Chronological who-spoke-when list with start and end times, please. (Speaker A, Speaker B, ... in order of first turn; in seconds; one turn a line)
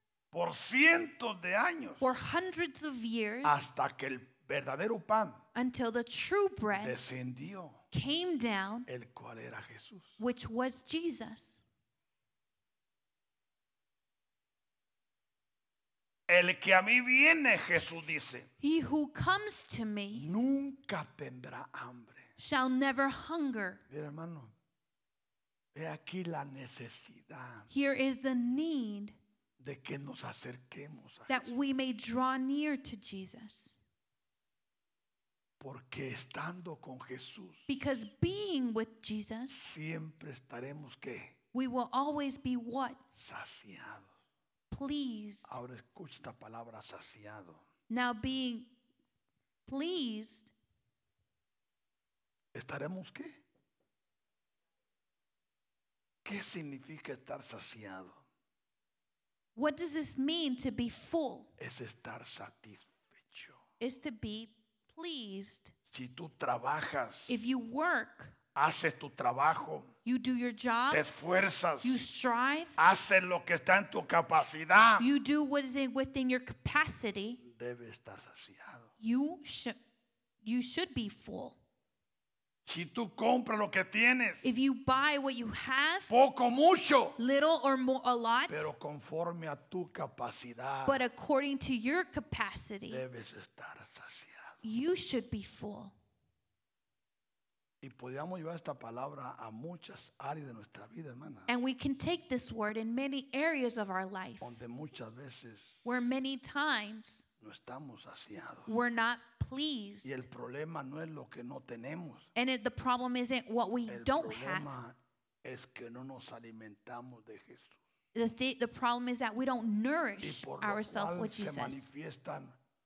Speaker A: 0.3-2.1
Speaker B: 2.0-3.6
Speaker A: 3.4-5.4
Speaker B: 5.5-7.0
Speaker A: 6.7-7.8
Speaker B: 7.9-8.9
Speaker A: 8.9-10.2
Speaker B: 10.2-11.6
Speaker A: 16.3-18.5
Speaker B: 18.6-20.3
Speaker A: 20.1-22.3
Speaker B: 22.4-23.8
Speaker A: 23.9-24.5
Speaker A: 25.7-27.7
Speaker B: 27.7-29.2
Speaker A: 29.6-31.5
Speaker B: 31.3-33.8
Speaker A: 35.6-37.7
Speaker B: 37.7-39.6
Speaker A: 39.5-41.4
Speaker B: 41.5-43.0
Speaker A: 43.1-44.1
Speaker B: 44.7-45.6
Speaker A: 45.5-47.6
Speaker B: 47.9-48.7
Speaker B: 49.7-50.5
Speaker A: 52.5-53.4
Speaker A: 56.2-58.2
Speaker B: 59.5-61.5
Speaker A: 61.6-63.6
Speaker B: 63.8-65.7
Speaker A: 65.9-67.5
Speaker B: 67.3-68.3
Speaker A: 68.5-69.9
Speaker B: 70.0-71.0
Speaker A: 70.9-72.0
Speaker B: 71.8-72.8
Speaker A: 72.8-75.1
Speaker B: 75.0-77.4
Speaker A: 77.4-78.9
Speaker B: 79.0-79.8
Speaker B: 80.4-81.6
Speaker A: 82.7-84.5
Speaker B: 84.4-86.1
Speaker A: 86.1-87.2
Speaker B: 87.2-88.7
Speaker A: 88.5-91.0
Speaker B: 90.8-93.0
Speaker A: 92.9-94.6
Speaker B: 94.6-96.0
Speaker A: 97.8-101.5
Speaker B: 101.5-104.6
Speaker A: 104.4-105.8
Speaker B: 105.8-107.2
Speaker A: 107.4-108.7
Speaker B: 108.7-110.2
Speaker A: 110.0-112.3
Speaker B: 112.3-114.7
Speaker A: 113.9-117.8
Speaker B: 118.1-121.9
Speaker A: 120.2-122.6